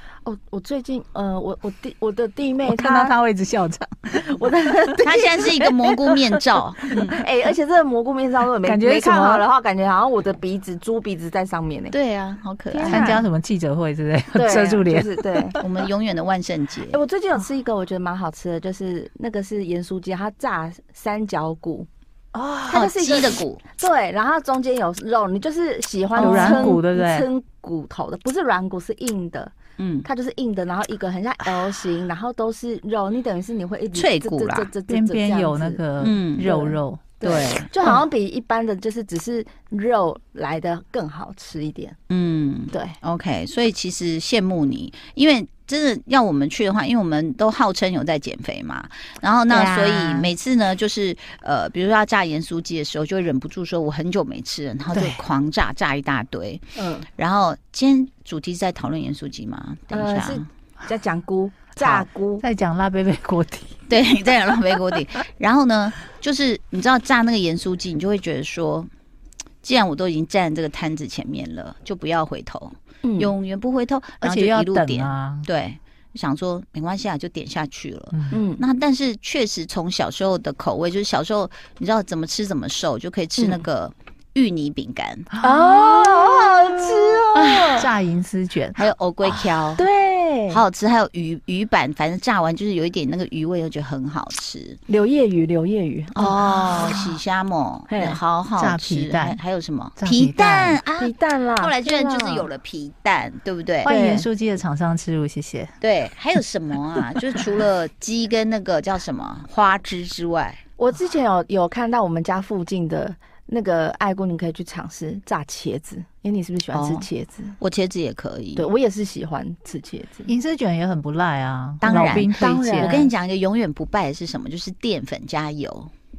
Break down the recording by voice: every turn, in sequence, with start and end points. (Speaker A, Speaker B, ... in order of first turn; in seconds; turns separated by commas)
Speaker A: 0.2-3.1, Speaker B: 2.7-4.9, Speaker A: 4.2-5.9, Speaker C: 5.0-7.2, Speaker B: 6.1-6.4, Speaker A: 7.1-11.9, Speaker B: 8.6-9.4, Speaker C: 11.9-13.2, Speaker A: 12.7-13.2, Speaker B: 12.9-15.6, Speaker A: 14.3-15.6, Speaker C: 15.6-17.0, Speaker A: 16.9-21.9, Speaker B: 22.3-22.9, Speaker A: 22.7-35.8, Speaker C: 22.7-23.6, Speaker B: 26.2-27.3, Speaker C: 26.2-26.8, Speaker C: 29.8-30.1, Speaker C: 34.0-34.7, Speaker B: 34.9-37.2, Speaker C: 36.0-36.6, Speaker A: 36.4-42.0, Speaker C: 37.2-37.7, Speaker C: 42.1-56.6, Speaker A: 42.7-43.0, Speaker B: 49.5-50.3, Speaker B: 54.9-55.2, Speaker A: 56.8-57.1, Speaker C: 57.2-60.5, Speaker A: 59.9-62.4, Speaker B: 61.8-63.8, Speaker C: 63.9-68.9, Speaker C: 69.6-85.3, Speaker A: 73.0-73.3, Speaker B: 74.2-75.5, Speaker A: 78.3-78.6, Speaker A: 83.4-83.7, Speaker B: 85.3-86.4, Speaker A: 85.4-87.9, Speaker C: 87.3-87.8, Speaker B: 87.7-88.9, Speaker C: 88.8-89.8, Speaker A: 89.8-90.6, Speaker C: 90.5-94.8, Speaker A: 94.9-96.3, Speaker C: 96.2-103.9, Speaker B: 96.2-97.2, Speaker A: 97.9-98.2, Speaker B: 98.6-99.4, Speaker B: 100.0-100.8, Speaker A: 101.0-102.5, Speaker B: 103.8-105.7, Speaker A: 103.8-104.3, Speaker C: 105.8-110.6, Speaker A: 110.8-117.6, Speaker C: 116.7-117.1, Speaker C: 117.6-118.7, Speaker A: 118.6-120.3, Speaker B: 120.3-123.1, Speaker C: 121.8-125.9, Speaker A: 122.3-123.1